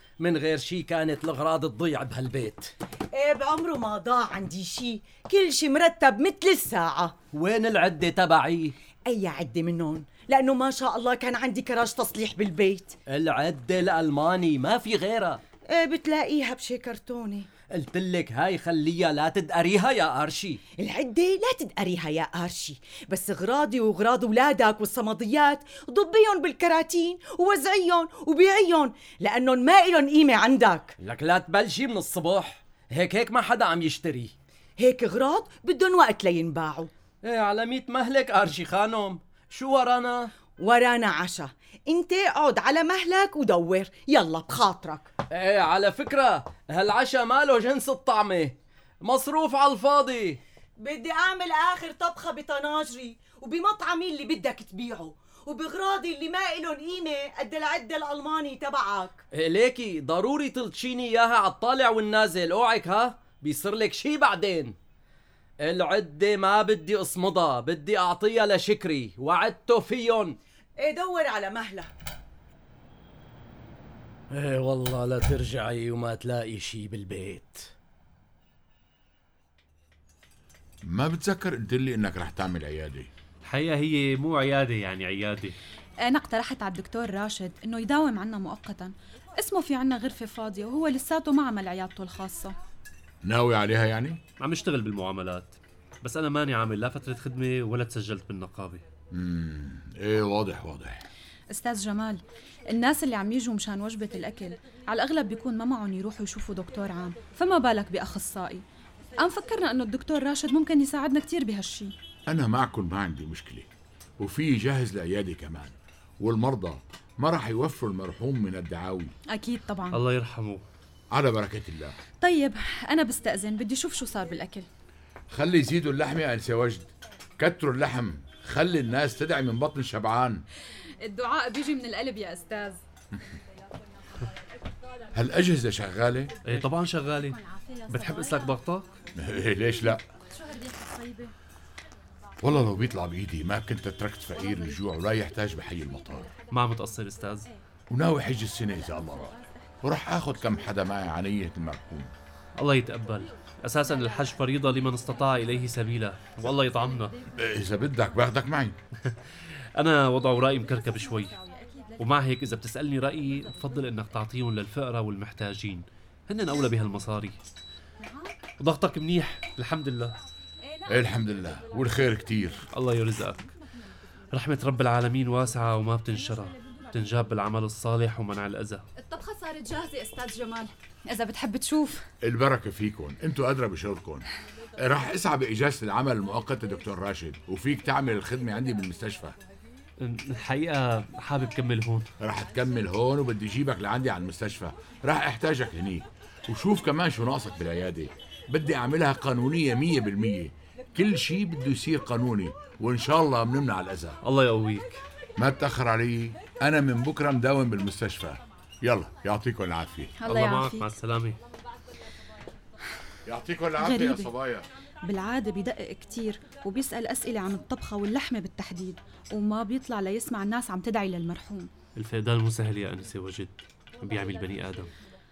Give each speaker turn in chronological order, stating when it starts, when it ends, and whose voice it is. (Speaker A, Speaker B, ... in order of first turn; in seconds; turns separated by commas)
Speaker A: 0.2-2.7, Speaker B: 3.1-7.1, Speaker A: 7.3-8.7, Speaker B: 9.1-12.9, Speaker A: 13.1-15.4, Speaker B: 15.7-17.5, Speaker A: 17.7-20.6, Speaker B: 20.8-30.9, Speaker A: 31.0-34.3, Speaker B: 34.8-36.9, Speaker A: 37.2-40.3, Speaker B: 40.6-45.1, Speaker A: 45.3-50.4, Speaker B: 50.8-59.2, Speaker A: 59.3-64.8, Speaker A: 65.6-70.4, Speaker B: 70.8-71.9, Speaker A: 74.3-77.7, Speaker C: 80.8-83.1, Speaker D: 83.4-85.6, Speaker E: 86.0-92.5, Speaker C: 93.2-94.2, Speaker D: 94.4-98.8, Speaker C: 99.1-101.0, Speaker E: 101.5-108.6, Speaker E: 109.2-111.9, Speaker C: 112.3-113.7, Speaker C: 114.2-119.1, Speaker E: 119.3-120.0, Speaker D: 119.9-120.6, Speaker C: 121.1-122.0, Speaker E: 122.2-124.7, Speaker C: 125.3-130.4, Speaker E: 131.0-132.8, Speaker C: 135.1-136.3, Speaker D: 136.4-138.9, Speaker C: 139.2-140.0, Speaker E: 140.3-141.3, Speaker C: 142.4-146.3, Speaker D: 146.5-147.5, Speaker C: 147.9-152.1, Speaker D: 152.6-157.2, Speaker C: 157.3-158.8, Speaker D: 159.8-161.4, Speaker D: 162.0-167.4, Speaker D: 168.6-170.2, Speaker C: 170.8-172.6, Speaker D: 172.7-173.5, Speaker D: 174.3-178.8, Speaker E: 178.9-182.0, Speaker C: 182.2-184.2, Speaker C: 184.8-189.4, Speaker D: 190.0-192.1, Speaker C: 192.2-204.2, Speaker D: 204.2-205.0, Speaker C: 205.4-210.1, Speaker E: 210.2-210.8, Speaker D: 210.2-211.4, Speaker C: 213.2-214.7, Speaker E: 213.8-214.3, Speaker E: 215.0-221.7, Speaker D: 221.9-224.9